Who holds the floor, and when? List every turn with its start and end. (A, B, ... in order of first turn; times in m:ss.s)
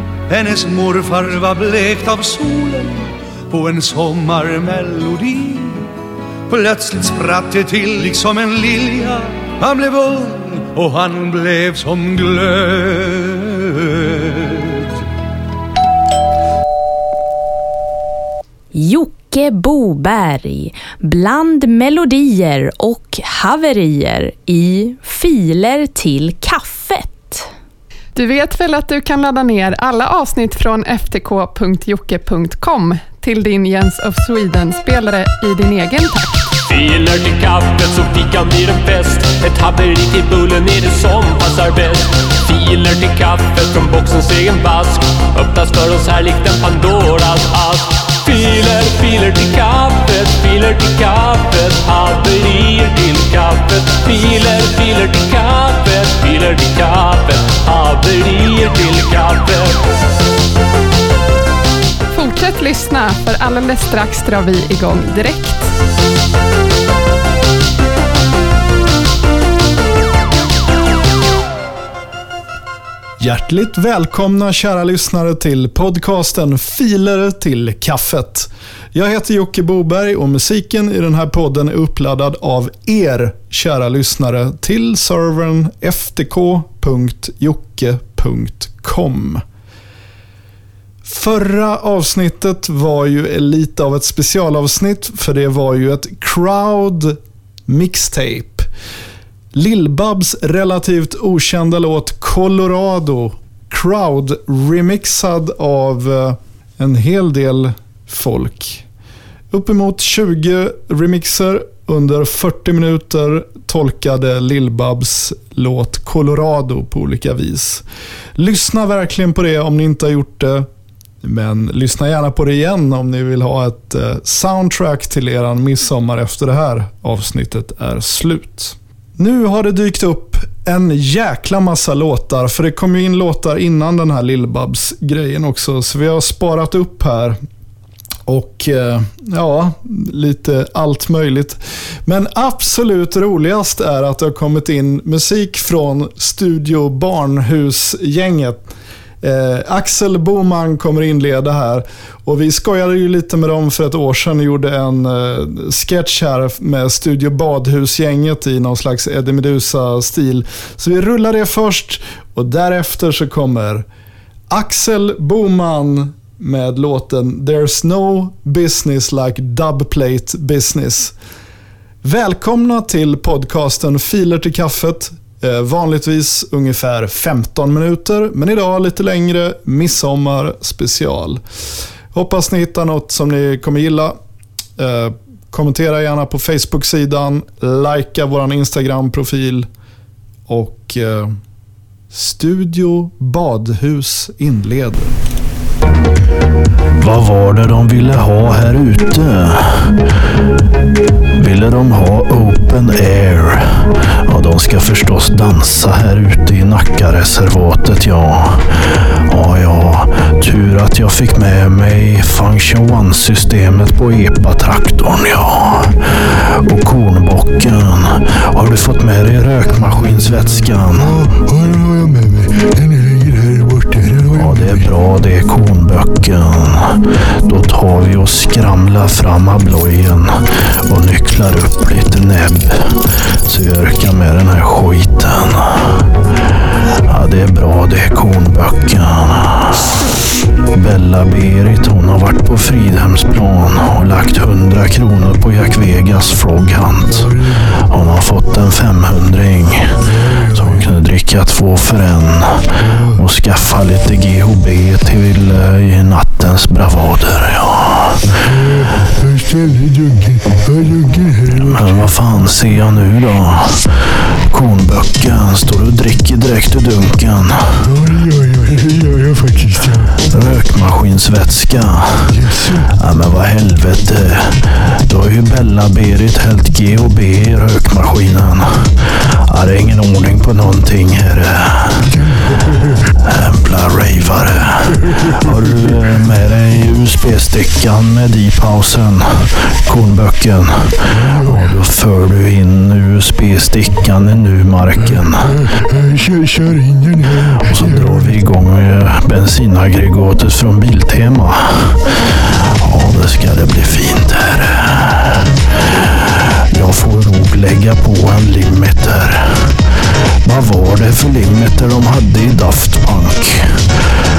0:00.3-0:05.9 A
0:06.5-0:14.8 A
0:18.7-0:27.5 B
0:28.2-0:36.4 C
0:36.7-0:59.8 D
1:02.1-1:05.7 C
1:13.2-1:29.4 E
1:31.0-1:38.7 E
1:39.5-1:48.8 E
1:49.5-1:57.8 E
1:58.4-2:00.7 E
2:01.2-2:17.4 E
2:18.3-2:28.7 E
2:29.2-2:43.8 E
2:44.5-2:51.1 E
2:52.0-3:01.4 E
3:02.1-3:04.2 E
3:04.8-3:09.7 E
3:10.5-3:11.3 E
3:12.1-3:15.1 E
3:17.0-3:20.0 F
3:21.3-3:41.2 F
3:41.0-3:44.9 G
3:44.3-3:56.1 F
3:57.0-3:59.9 F
4:00.7-4:18.3 F
4:07.1-4:07.7 G
4:10.1-4:10.8 G
4:12.8-4:13.2 G
4:18.4-4:21.9 G
4:21.5-4:27.9 F
4:27.8-4:30.2 G
4:30.2-4:42.1 F
4:32.3-4:32.9 G
4:42.0-4:43.0 G
4:43.2-4:55.6 F
4:45.1-4:46.0 G
4:51.1-4:51.7 G
4:55.1-4:58.4 G
4:57.6-5:09.8 F
5:10.4-5:14.1 F